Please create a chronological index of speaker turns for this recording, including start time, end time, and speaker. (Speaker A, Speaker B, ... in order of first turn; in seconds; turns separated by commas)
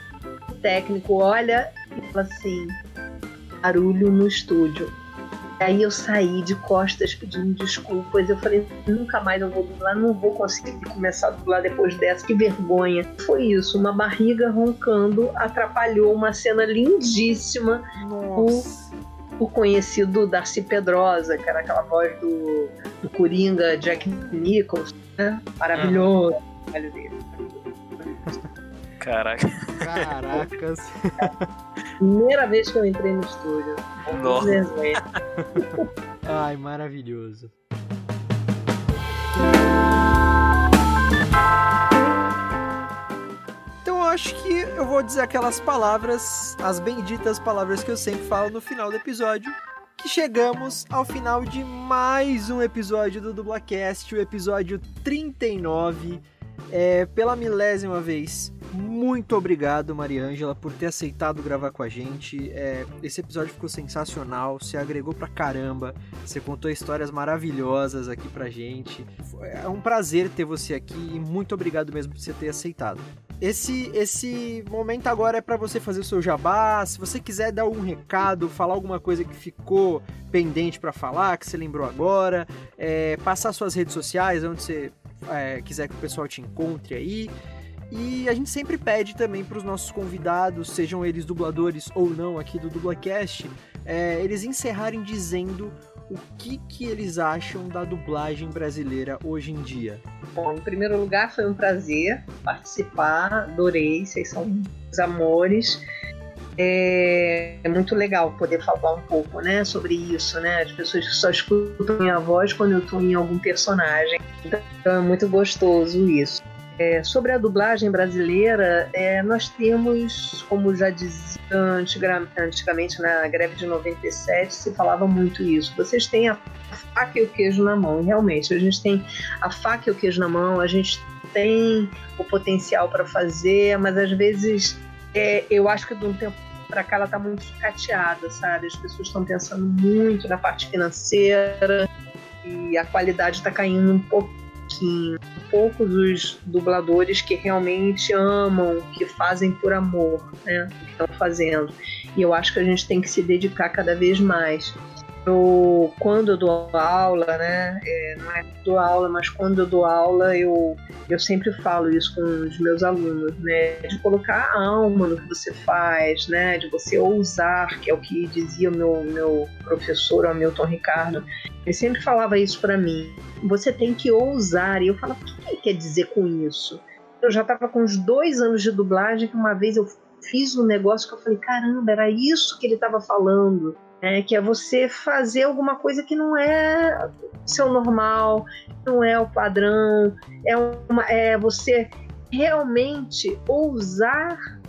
Speaker A: 0.5-2.8, Speaker A: 3.6-5.0, Speaker A: 5.6-17.8, Speaker B: 18.0-18.9, Speaker A: 18.4-18.7, Speaker A: 19.4-28.3, Speaker C: 25.8-26.1, Speaker C: 29.0-29.8, Speaker B: 29.8-31.5, Speaker A: 32.0-35.0, Speaker C: 34.1-35.2, Speaker A: 35.6-35.9, Speaker B: 36.2-37.5, Speaker B: 43.8-87.3, Speaker B: 87.9-100.0, Speaker A: 100.3-105.8, Speaker A: 106.6-141.9, Speaker A: 142.4-194.4